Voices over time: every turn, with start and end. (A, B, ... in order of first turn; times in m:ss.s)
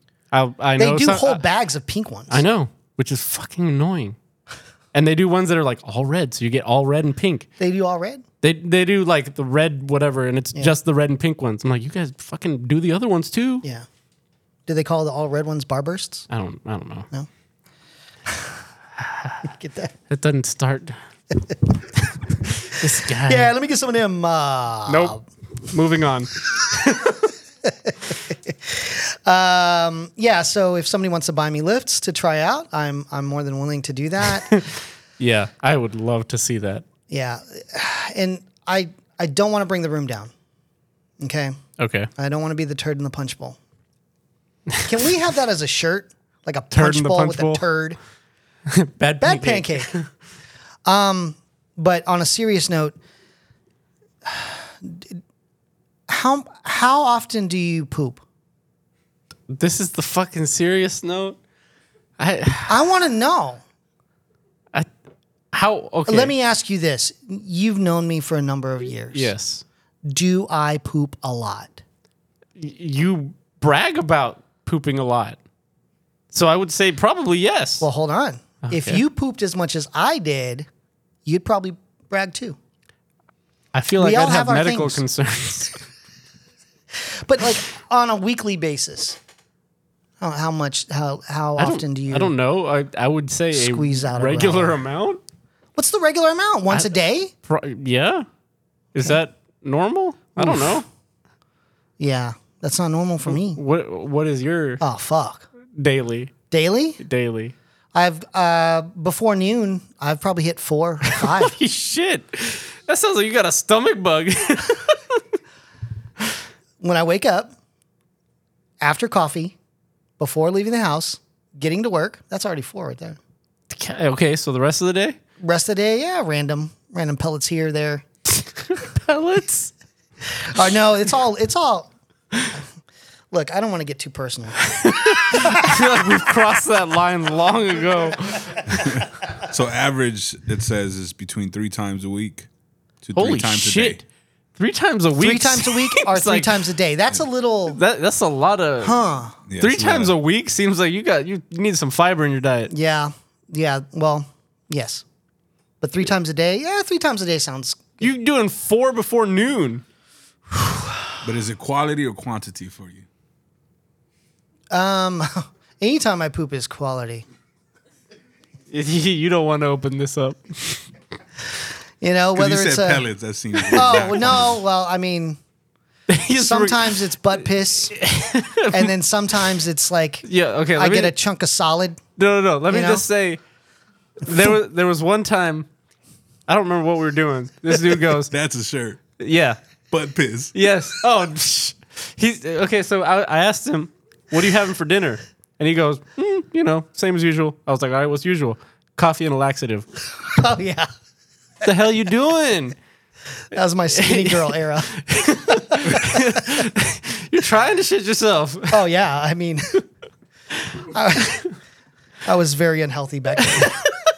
0:00.3-0:01.4 A
0:00.8-0:02.4 B
0:02.3-0:04.2 A
0:04.9-0:07.5 A
0:07.6-0:08.2 B
0:08.4-0:13.6 A
0:14.7-0:16.3 B
0:16.3-0:17.1 A
0:19.0-0:19.5 A
0:19.5-0:19.9 B
0:20.1-0:21.0 A
0:22.6-0:23.5 A
0:23.2-0:25.2 B
0:24.9-0:27.2 A
0:27.6-0:34.6 B
0:34.5-0:36.8 A
0:37.1-0:40.3 B
0:41.2-0:41.6 B
0:41.8-0:42.1 A
0:42.2-0:43.6 B
0:44.8-0:48.0 B
0:46.7-0:47.6 A
0:48.7-0:50.1 A
0:49.2-0:49.9 B
0:50.8-0:53.0 B
0:54.3-0:55.2 B
0:56.1-0:58.2 B
0:59.5-1:01.4 A
1:02.2-1:02.8 A
1:02.7-1:03.6 B
1:05.5-1:06.3 A
1:06.1-1:09.3 B
1:09.1-1:09.6 A
1:10.1-1:11.8 B
1:12.6-1:15.4 A
1:16.3-1:17.9 A
1:17.8-1:20.7 B
1:18.6-1:19.0 A
1:21.3-1:22.6 B
1:23.7-1:25.8 A
1:24.0-1:25.0 B
1:27.0-1:29.2 B
1:30.2-1:32.3 B
1:31.6-1:35.2 A
1:33.5-1:34.8 B
1:35.8-1:37.3 B
1:37.5-1:38.3 A
1:38.9-1:40.9 A
1:40.4-1:40.8 B
1:42.0-1:43.6 B
1:43.3-1:44.8 A
1:44.8-1:45.5 B
1:45.8-1:46.3 A
1:46.5-1:47.0 B
1:47.0-1:47.5 A
1:48.0-1:51.6 B
1:51.2-1:55.2 A
1:56.8-1:57.5 B
1:58.8-1:59.6 B
2:00.2-2:03.2 B
2:03.7-2:05.2 A
2:05.4-2:08.0 B
2:08.7-2:09.7 A
2:10.3-2:11.9 B
2:13.3-2:15.9 B
2:14.6-2:19.0 A
2:18.9-2:22.5 C
2:23.0-2:24.0 C
2:23.2-2:24.0 A
2:24.6-2:26.6 A
2:25.2-2:27.8 B
2:27.7-2:29.0 A
2:28.8-2:29.4 B
2:29.5-2:30.1 C
2:29.6-2:32.7 A
2:32.7-2:35.0 B
2:35.8-2:38.1 B
2:38.0-2:39.8 A
2:41.2-2:43.1 C
2:44.7-2:47.3 B
2:48.7-2:50.8 A
2:52.0-2:53.0 B
2:52.4-2:54.5 C
2:53.7-2:55.4 B
2:56.1-2:57.1 A
2:56.4-2:58.0 B
2:58.0-2:58.9 A
2:58.7-3:02.0 B
3:00.2-3:01.2 A
3:02.2-3:03.4 A
3:02.7-3:03.0 B
3:04.2-3:05.7 A
3:06.5-3:08.3 A
3:08.1-3:09.0 C
3:09.2-3:09.6 A
3:09.9-3:10.5 C
3:10.5-3:19.9 A
3:20.3-3:20.9 B
3:21.6-3:22.8 A
3:23.5-3:26.6 B
3:23.9-3:28.8 A
3:28.7-3:29.8 B
3:30.8-3:31.5 B
3:32.2-3:33.9 B